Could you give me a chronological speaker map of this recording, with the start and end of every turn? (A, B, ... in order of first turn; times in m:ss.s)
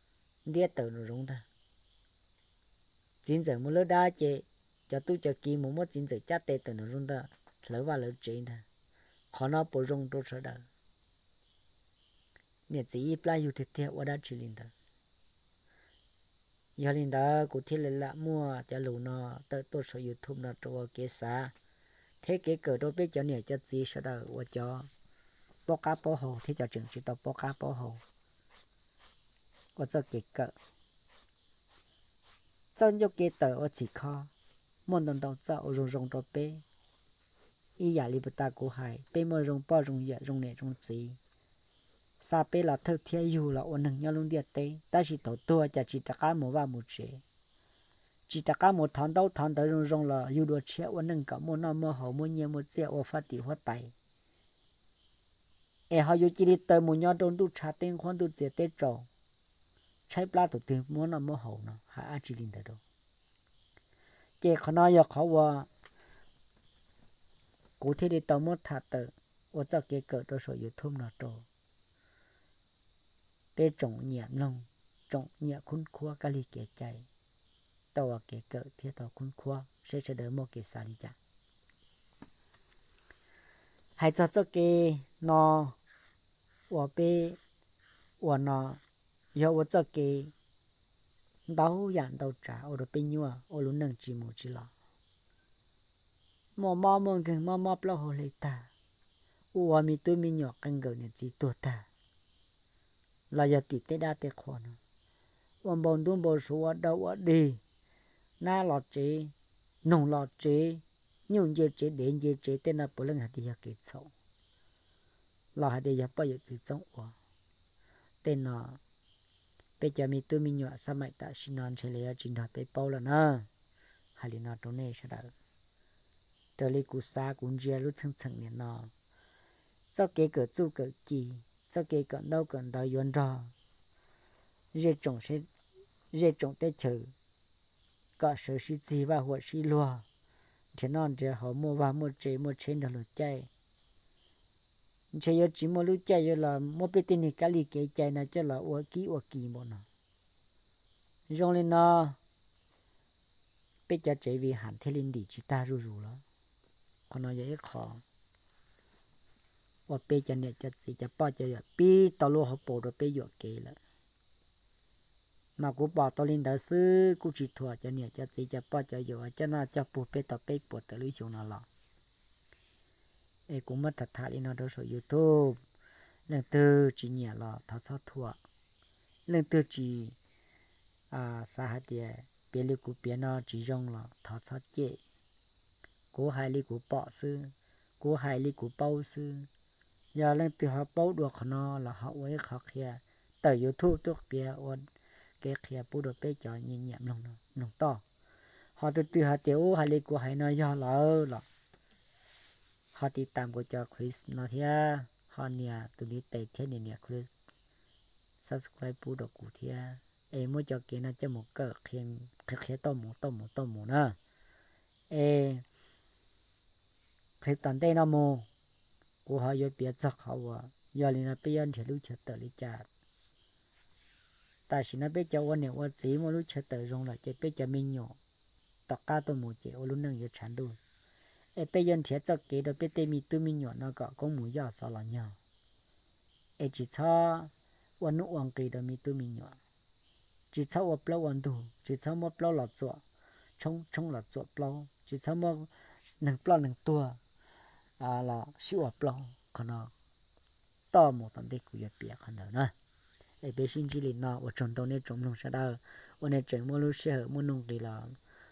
0:00.4-0:01.4 A
0:03.2-0:08.6 A
0:09.3-0:10.6 A
0:12.7-0:14.7 A
0:16.8-0:21.5 A
0:22.2-0:24.9 A
0:25.7-0:28.0 A
0:29.8-0:30.5 A
0:32.8-0:34.3 A
0:34.9-0:36.6 A
0:37.8-0:41.2 A
0:42.2-0:47.2 A
0:48.3-0:53.9 A
0:55.9-0:59.1 A
1:00.1-1:02.8 A
1:04.4-1:05.7 A
1:07.8-1:11.4 A
1:13.6-1:17.0 A
1:17.9-1:21.2 A
1:24.0-1:25.8 A
1:26.7-1:27.4 A
1:28.2-1:28.8 A
1:29.3-1:30.3 A
1:31.5-1:34.7 A
1:36.6-1:38.7 A
1:39.5-1:41.8 A
1:43.3-1:44.8 A
1:45.6-1:47.6 A
1:48.4-1:49.3 A
1:49.8-1:54.1 A
1:55.6-1:57.1 A
1:58.2-1:58.8 A
1:59.8-2:03.5 A
2:04.2-2:05.3 A
2:06.6-2:08.9 A
2:09.9-2:13.5 A
2:14.7-2:15.5 A
2:16.1-2:17.1 A
2:18.2-2:20.0 A
2:20.7-2:23.5 A
2:25.1-2:29.8 A
2:31.3-2:32.2 A
2:33.9-2:36.2 A
2:37.1-2:38.0 A
2:39.9-2:43.8 A
2:45.6-2:51.7 A
2:53.5-2:55.6 A
2:56.3-2:58.4 A
2:59.3-3:00.2 A
3:01.1-3:05.0 A
3:06.1-3:09.5 A
3:10.1-3:14.8 A
3:15.4-3:18.0 A
3:18.8-3:21.4 A
3:22.9-3:27.3 A
3:28.4-3:34.2 A
3:35.1-3:35.6 A
3:37.4-3:38.4 A
3:39.2-3:42.8 A
3:44.7-3:48.2 A
3:48.9-3:50.8 A
3:51.6-3:55.4 A
3:56.6-3:59.6 A
4:00.5-4:03.0 A
4:03.6-4:05.7 A
4:06.2-4:07.2 A
4:08.0-4:09.9 A
4:10.9-4:12.7 A
4:13.4-4:18.1 A